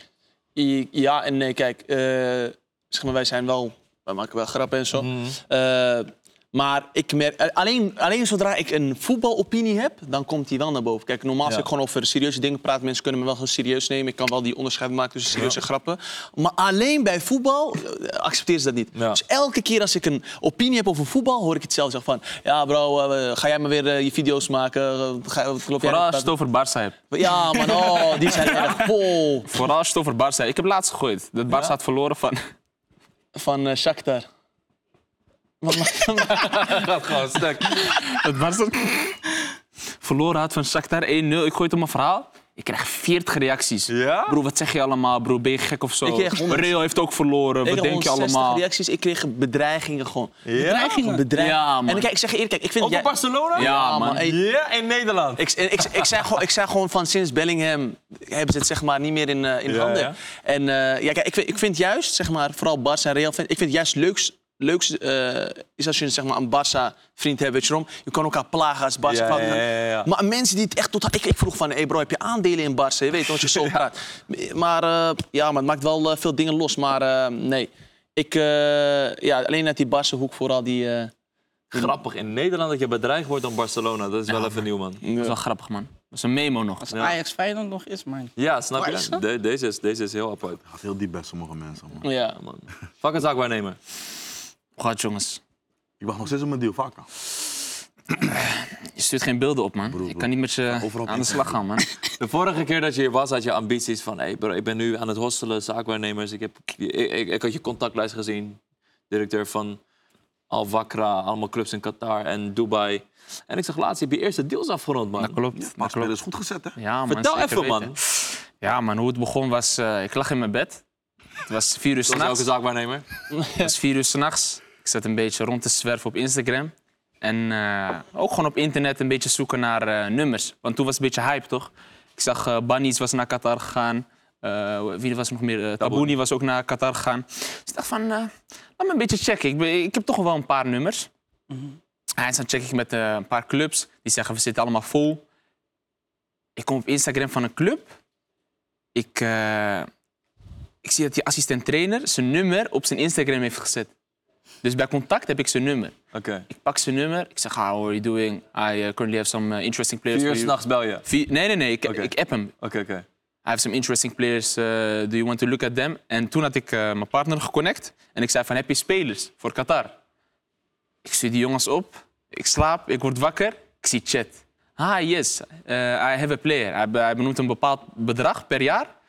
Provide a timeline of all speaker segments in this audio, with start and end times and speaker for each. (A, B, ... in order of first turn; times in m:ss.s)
0:00.6-0:26.3 A
0:05.0-0:05.4 B
0:19.0-0:19.2 B
0:25.8-0:28.9 C
0:27.1-0:29.5 A
0:29.5-0:32.4 C
0:31.5-0:31.8 B
0:33.4-0:34.3 A
0:35.6-0:36.8 A
0:36.4-0:37.9 B
0:37.7-0:39.2 C
0:40.0-0:48.6 C
0:43.9-0:44.4 B
0:46.0-0:46.7 A
0:47.6-0:50.4 A
0:50.4-0:51.0 B
0:50.6-0:51.3 D
0:51.0-0:54.4 A
0:51.4-0:52.1 C
0:52.8-0:56.1 B
0:53.6-0:54.3 C
0:55.4-1:21.1 A
0:59.7-1:00.2 B
1:09.1-1:10.1 B
1:21.7-1:25.0 B
1:24.3-1:24.6 C
1:25.0-1:25.4 A
1:25.2-1:26.9 C
1:26.8-1:29.2 D
1:28.4-1:30.6 B
1:30.6-1:32.0 E
1:32.0-1:32.4 A
1:32.4-1:33.8 B
1:34.8-1:35.4 C
1:36.0-1:37.1 E
1:38.2-1:41.9 C
1:39.9-1:41.6 E
1:42.2-1:48.6 B
1:49.1-1:49.8 B
1:50.5-1:55.4 B
1:55.2-1:56.1 C
1:55.6-1:56.8 E
1:56.8-2:00.8 C
1:57.1-1:58.0 B
2:01.4-2:02.5 C
2:02.1-2:03.1 B
2:03.3-2:03.7 A
2:03.6-2:21.1 C
2:15.8-2:16.1 B
2:22.2-2:25.2 C
2:26.6-2:27.9 C
2:29.0-2:29.9 C
2:30.8-2:33.9 C
2:34.6-2:36.0 C
2:36.1-2:36.5 B
2:36.5-2:42.5 C
2:40.1-2:41.1 B
2:41.8-2:43.1 B
2:43.4-2:50.0 C
2:51.0-2:58.9 C